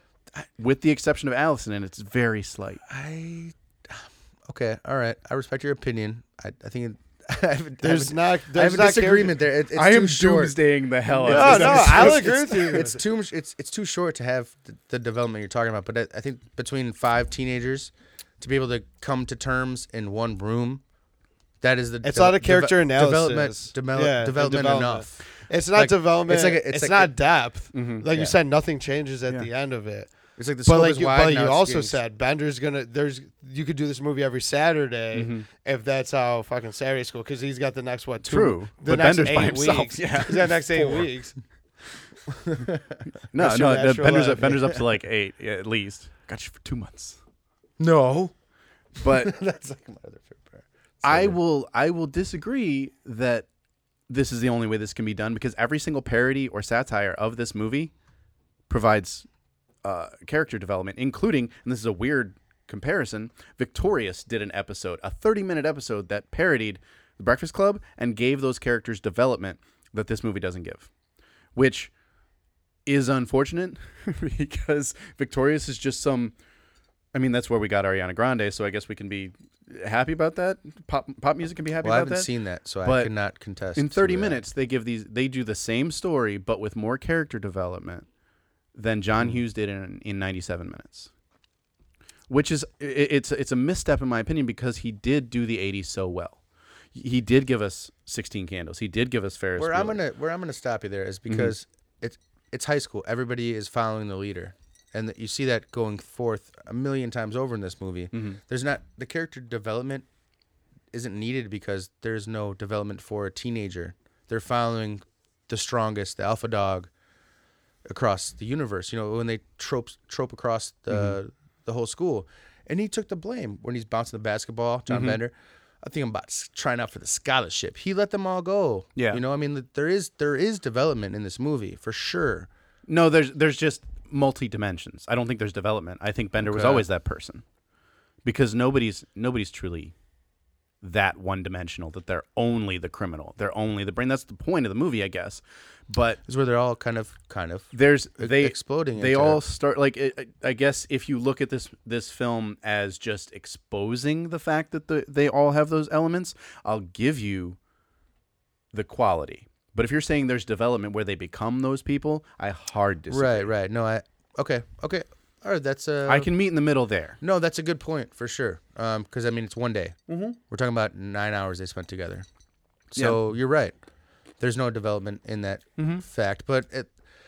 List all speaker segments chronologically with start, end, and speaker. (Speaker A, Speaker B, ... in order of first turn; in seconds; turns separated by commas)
Speaker A: 0.6-2.8, Speaker B: 2.9-10.6, Speaker C: 7.8-9.4, Speaker A: 9.7-12.3, Speaker B: 11.1-20.8, Speaker C: 11.2-13.0, Speaker B: 21.6-27.1, Speaker C: 22.0-30.1, Speaker A: 27.7-28.1, Speaker B: 28.1-28.4, Speaker B: 30.4-32.0, Speaker C: 30.6-41.4, Speaker A: 35.1-35.5, Speaker A: 38.2-41.0, Speaker B: 40.8-41.1, Speaker B: 42.3-43.0, Speaker A: 43.3-47.2, Speaker C: 43.4-44.6, Speaker B: 44.4-44.8, Speaker B: 47.8-48.3, Speaker B: 49.0-51.4, Speaker A: 49.0-49.4, Speaker A: 51.0-53.5, Speaker A: 54.1-57.9, Speaker A: 58.7-59.3, Speaker A: 59.8-70.9, Speaker A: 71.6-71.9, Speaker A: 72.9-76.3, Speaker A: 77.1-82.3, Speaker B: 81.8-84.4, Speaker A: 82.8-83.1, Speaker A: 83.8-88.1, Speaker A: 88.8-91.1, Speaker A: 92.3-96.4, Speaker A: 96.9-100.0, Speaker B: 99.6-110.1, Speaker A: 108.1-108.4, Speaker B: 110.9-116.9, Speaker B: 117.9-132.5, Speaker A: 120.9-121.2, Speaker A: 124.9-125.2, Speaker A: 129.0-129.2, Speaker A: 132.9-137.4, Speaker B: 136.4-136.9, Speaker A: 138.2-139.9, Speaker A: 140.8-146.2, Speaker B: 146.2-149.4, Speaker A: 147.7-157.6, Speaker A: 158.7-163.5, Speaker B: 163.1-166.3, Speaker A: 166.1-167.2, Speaker B: 167.2-172.3, Speaker A: 170.1-170.4, Speaker B: 172.9-173.8, Speaker A: 172.9-173.2, Speaker B: 174.4-176.9, Speaker A: 175.8-176.0